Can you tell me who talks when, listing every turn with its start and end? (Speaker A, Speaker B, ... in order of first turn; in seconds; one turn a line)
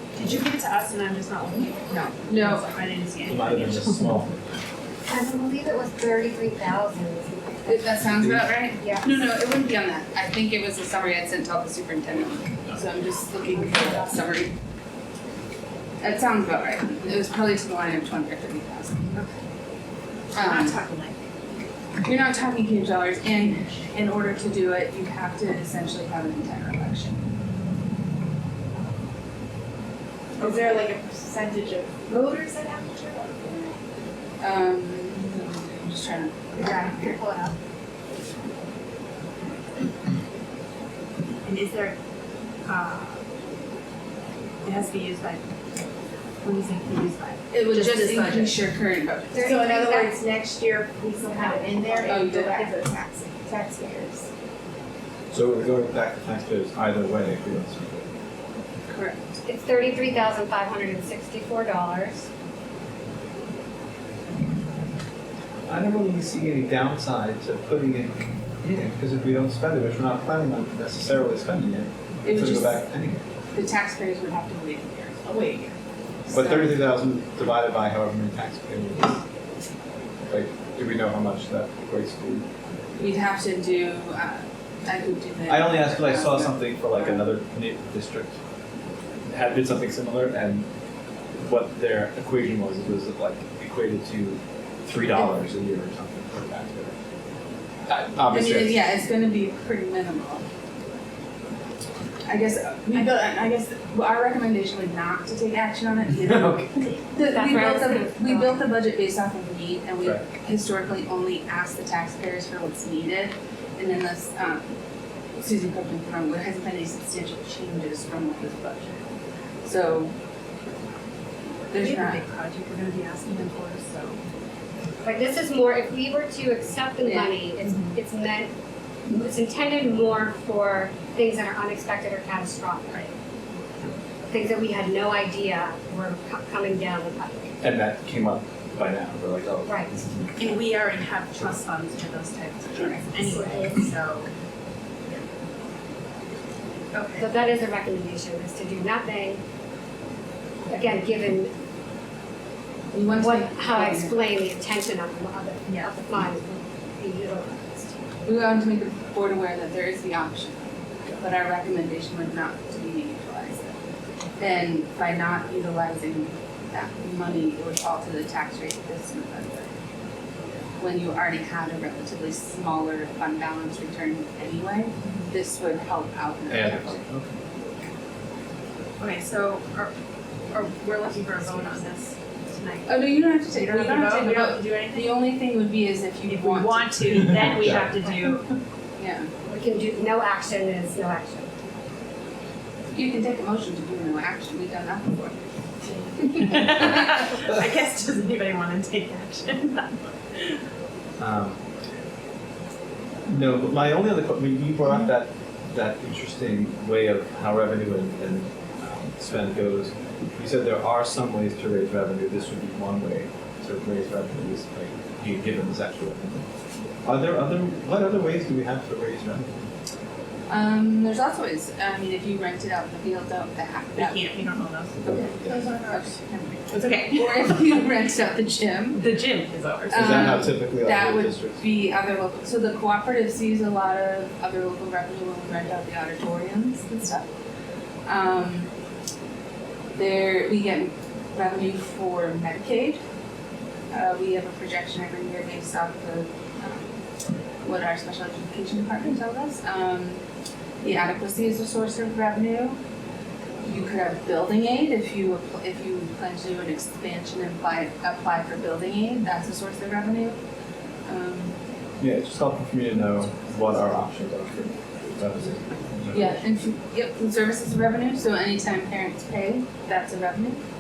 Speaker A: 0.1-4.1
Speaker B: 2.2-2.7
Speaker C: 3.3-4.3
Speaker D: 5.1-8.0
Speaker B: 7.7-14.5
Speaker C: 8.2-8.5
Speaker D: 8.8-9.0
Speaker D: 13.5-14.1
Speaker B: 16.0-19.2
Speaker B: 20.3-20.8
Speaker A: 20.3-21.2
Speaker B: 22.0-27.2
Speaker A: 30.4-33.6
Speaker B: 34.4-37.2
Speaker D: 36.7-37.5
Speaker A: 41.5-42.0
Speaker A: 42.6-43.2
Speaker A: 44.6-45.4
Speaker A: 46.4-48.5
Speaker B: 47.5-49.5
Speaker D: 49.3-50.1
Speaker A: 49.4-54.2
Speaker D: 51.5-52.2
Speaker B: 52.0-52.7
Speaker C: 55.3-58.1
Speaker B: 58.9-59.4
Speaker D: 59.5-62.2
Speaker C: 65.7-73.2
Speaker B: 72.2-72.8
Speaker B: 73.5-75.6
Speaker B: 76.3-76.8
Speaker C: 76.3-79.2
Speaker C: 80.3-82.5
Speaker B: 83.0-87.3
Speaker C: 85.5-88.3
Speaker C: 89.3-90.7
Speaker C: 91.4-96.9
Speaker C: 97.9-98.8
Speaker B: 98.3-100.4
Speaker B: 102.2-114.6
Speaker C: 106.3-106.6
Speaker D: 107.2-108.6
Speaker B: 115.4-119.0
Speaker B: 119.6-120.1
Speaker B: 121.7-122.2
Speaker A: 121.7-124.2
Speaker D: 125.0-128.5
Speaker B: 127.0-127.4
Speaker A: 127.6-128.0
Speaker D: 129.1-133.1
Speaker D: 134.3-137.5
Speaker C: 137.6-139.9
Speaker D: 139.7-139.9
Speaker A: 140.4-144.3
Speaker D: 143.2-143.8
Speaker A: 146.9-147.4
Speaker D: 147.2-149.4
Speaker D: 150.7-151.5
Speaker B: 152.9-154.3
Speaker D: 153.1-157.9
Speaker A: 155.7-155.9
Speaker B: 158.2-160.6
Speaker B: 161.2-163.7
Speaker B: 164.4-169.7
Speaker B: 170.8-176.9
Speaker C: 176.5-177.3
Speaker A: 179.0-179.9
Speaker A: 180.5-183.0
Speaker B: 182.9-187.3
Speaker A: 183.5-185.1
Speaker A: 186.3-188.4
Speaker C: 187.5-187.9
Speaker B: 189.0-189.3
Speaker D: 189.4-191.5
Speaker B: 192.9-195.4
Speaker A: 195.9-199.9
Speaker B: 196.2-197.0
Speaker C: 201.2-201.6
Speaker C: 203.3-216.4
Speaker C: 217.0-219.5
Speaker B: 220.5-224.3
Speaker A: 223.9-226.1
Speaker B: 225.0-229.1
Speaker A: 226.7-227.7
Speaker A: 228.9-230.4
Speaker B: 229.9-237.2
Speaker C: 229.9-231.6
Speaker B: 238.1-238.7
Speaker B: 239.9-243.0
Speaker B: 243.9-246.9
Speaker B: 247.6-250.2
Speaker B: 250.8-252.8
Speaker B: 253.6-260.4
Speaker B: 261.1-261.6
Speaker C: 262.0-266.4
Speaker B: 266.1-270.6